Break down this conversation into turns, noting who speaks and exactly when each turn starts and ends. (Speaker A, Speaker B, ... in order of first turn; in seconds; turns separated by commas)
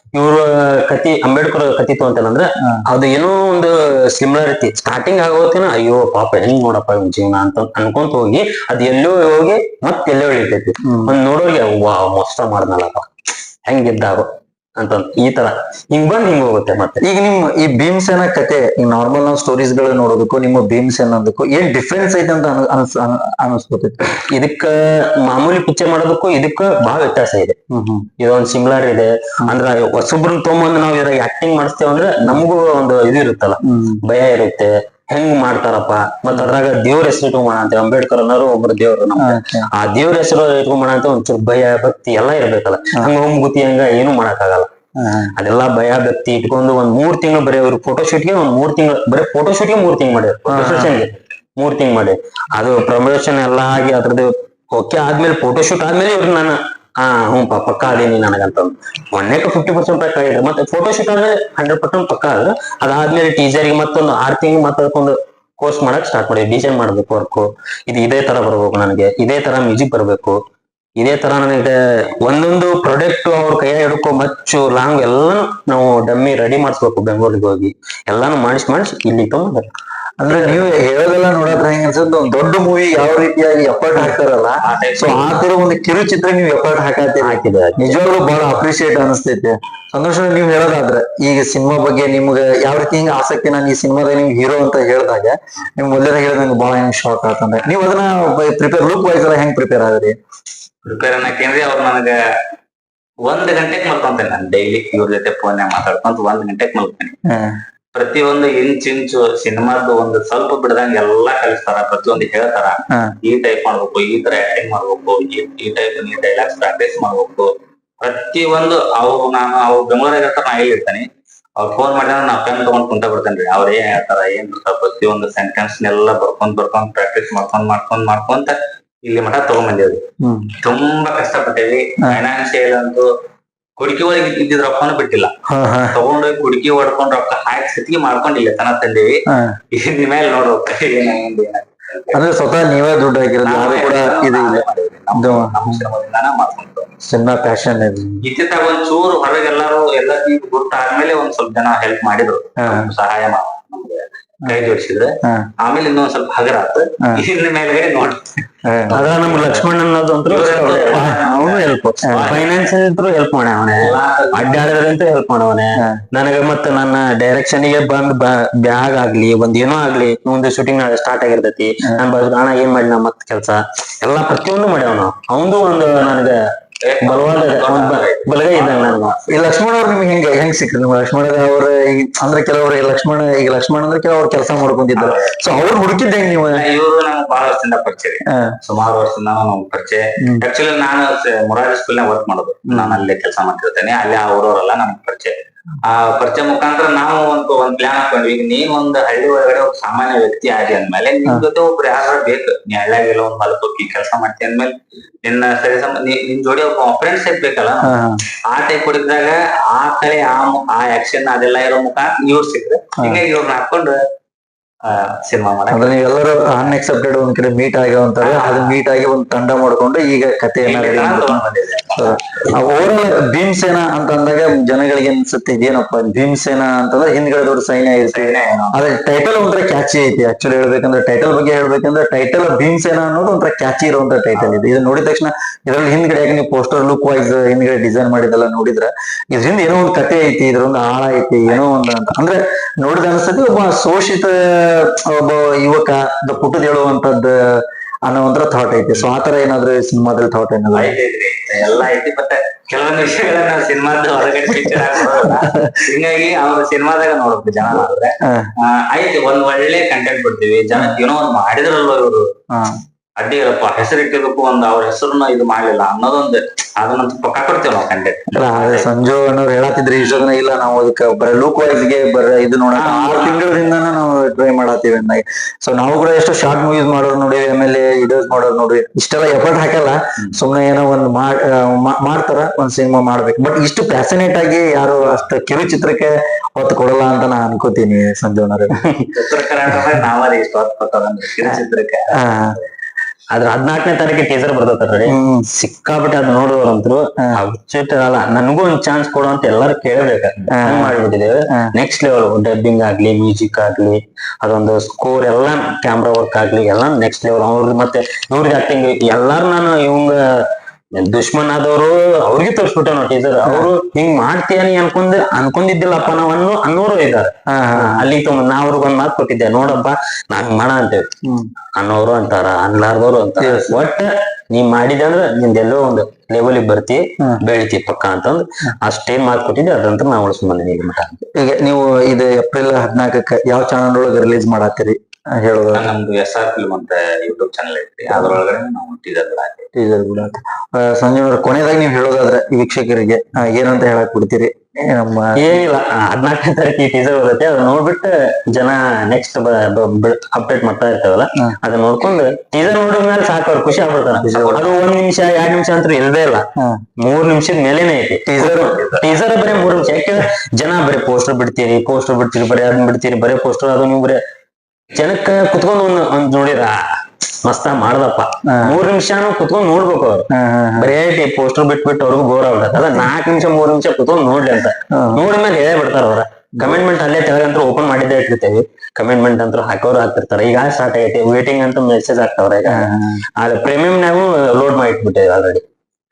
Speaker A: 0.1-13.1, Speaker B: 10.8-11.1, Speaker A: 13.7-17.0, Speaker B: 17.0-24.0, Speaker A: 24.2-27.6, Speaker B: 27.7-28.1, Speaker A: 28.2-44.7, Speaker B: 33.6-34.0, Speaker B: 36.3-36.6, Speaker B: 39.2-39.7, Speaker B: 45.0-45.3, Speaker A: 45.4-70.4, Speaker B: 50.5-50.9, Speaker A: 71.0-79.7, Speaker B: 80.2-100.1, Speaker C: 84.6-85.4, Speaker A: 87.2-87.9, Speaker C: 100.8-102.1, Speaker C: 103.2-107.2, Speaker B: 107.3-107.6, Speaker C: 107.9-117.5, Speaker C: 118.0-121.1, Speaker C: 121.6-130.0, Speaker B: 130.2-130.5, Speaker C: 130.6-133.1, Speaker C: 133.8-135.3, Speaker B: 135.5-136.0, Speaker C: 135.9-139.2, Speaker B: 139.3-139.5, Speaker C: 139.7-142.2, Speaker B: 142.1-144.6, Speaker C: 143.4-146.9, Speaker B: 145.1-145.8, Speaker B: 147.0-148.2, Speaker C: 148.2-158.3, Speaker B: 152.6-152.9, Speaker B: 158.6-159.0, Speaker C: 158.9-159.6, Speaker A: 158.9-176.4, Speaker C: 160.3-162.5, Speaker B: 160.8-161.2, Speaker B: 162.0-162.3, Speaker C: 163.8-164.7, Speaker C: 176.8-179.2, Speaker A: 177.0-179.1, Speaker B: 179.3-186.6, Speaker C: 184.9-185.8, Speaker C: 186.5-204.7, Speaker B: 192.7-193.0, Speaker C: 205.2-207.9, Speaker B: 207.8-208.2, Speaker C: 208.5-214.0, Speaker C: 214.8-216.0, Speaker B: 215.7-221.4, Speaker C: 218.2-218.8, Speaker C: 220.6-222.5, Speaker B: 222.0-250.9, Speaker C: 228.0-228.8, Speaker C: 250.7-262.2, Speaker B: 255.1-255.7, Speaker B: 258.2-258.5, Speaker C: 263.2-268.9, Speaker B: 268.3-288.8, Speaker C: 270.0-270.2, Speaker C: 272.7-273.4, Speaker A: 288.8-289.1, Speaker C: 289.1-292.7, Speaker B: 292.2-292.6, Speaker A: 293.3-310.2, Speaker B: 295.1-295.5, Speaker B: 300.5-301.0, Speaker A: 311.0-321.1, Speaker B: 313.4-313.7, Speaker B: 317.5-318.1, Speaker A: 321.8-331.2, Speaker B: 323.4-323.8, Speaker B: 331.3-335.9, Speaker C: 335.7-339.7, Speaker B: 339.7-345.6, Speaker A: 345.4-356.4, Speaker C: 354.1-354.7, Speaker B: 354.2-354.6, Speaker A: 357.0-364.2, Speaker B: 358.3-358.7, Speaker C: 358.6-359.1, Speaker A: 364.9-366.8, Speaker A: 367.4-370.2, Speaker B: 368.5-368.8, Speaker B: 370.3-370.9, Speaker A: 370.8-385.6, Speaker B: 374.9-375.2, Speaker B: 376.6-376.8, Speaker B: 382.7-383.2